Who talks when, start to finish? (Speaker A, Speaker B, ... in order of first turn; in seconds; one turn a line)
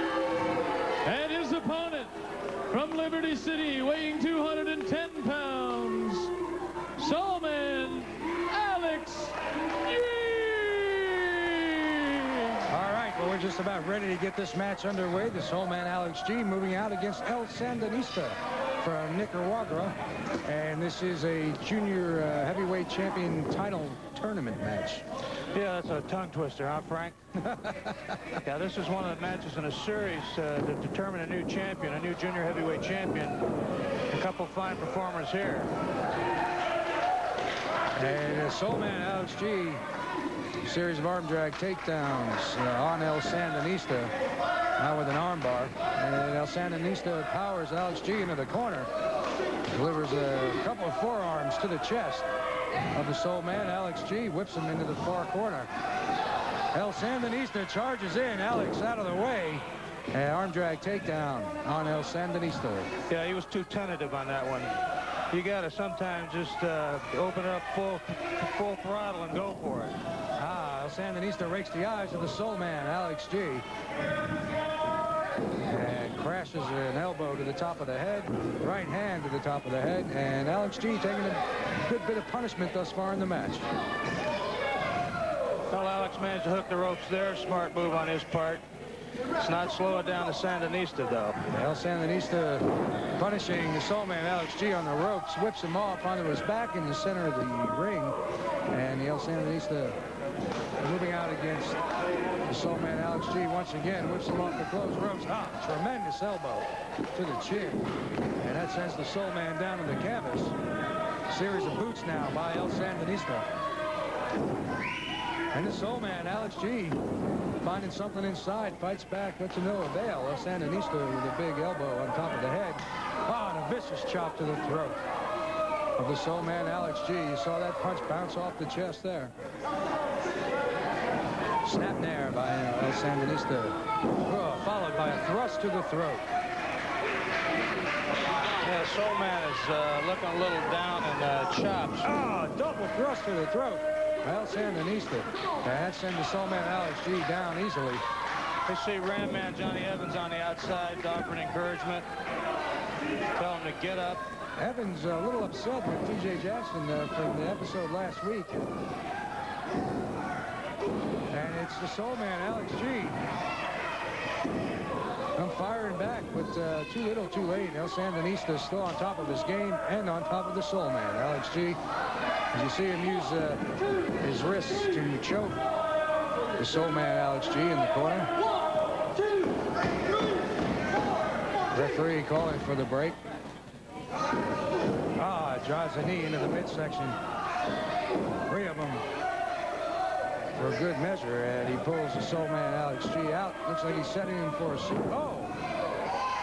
Speaker A: 1.0-2.1
Speaker A: 2.7-6.3
Speaker A: 7.0-12.6
Speaker B: 12.7-25.0
Speaker C: 25.5-27.2
Speaker B: 27.5-28.1
Speaker C: 28.4-33.4
Speaker C: 34.1-35.7
Speaker B: 38.0-39.8
Speaker B: 40.6-44.1
Speaker B: 44.8-48.9
Speaker B: 49.7-52.3
Speaker B: 52.9-55.7
Speaker B: 56.7-62.9
Speaker C: 63.1-64.7
Speaker C: 65.3-70.0
Speaker B: 70.4-73.6
Speaker B: 75.7-83.7
Speaker C: 85.7-88.6
Speaker C: 89.4-91.4
Speaker B: 91.5-92.7
Speaker B: 93.2-98.2
Speaker B: 98.7-100.0
Speaker B: 100.8-101.8
Speaker B: 102.5-107.8
Speaker B: 108.4-110.5
Speaker B: 111.3-113.5
Speaker B: 115.5-117.0
Speaker B: 117.6-125.0
Speaker B: 126.0-129.3
Speaker B: 131.6-136.2
Speaker C: 138.6-142.1
Speaker B: 142.0-148.0
Speaker C: 148.7-152.1
Speaker C: 153.3-154.2
Speaker B: 154.6-158.6
Speaker B: 161.3-163.2
Speaker B: 165.3-171.8
Speaker B: 172.5-173.6
Speaker B: 174.2-175.6
Speaker B: 176.6-178.3
Speaker B: 181.7-183.2
Speaker B: 185.2-187.2
Speaker B: 188.5-189.0
Speaker B: 190.5-195.6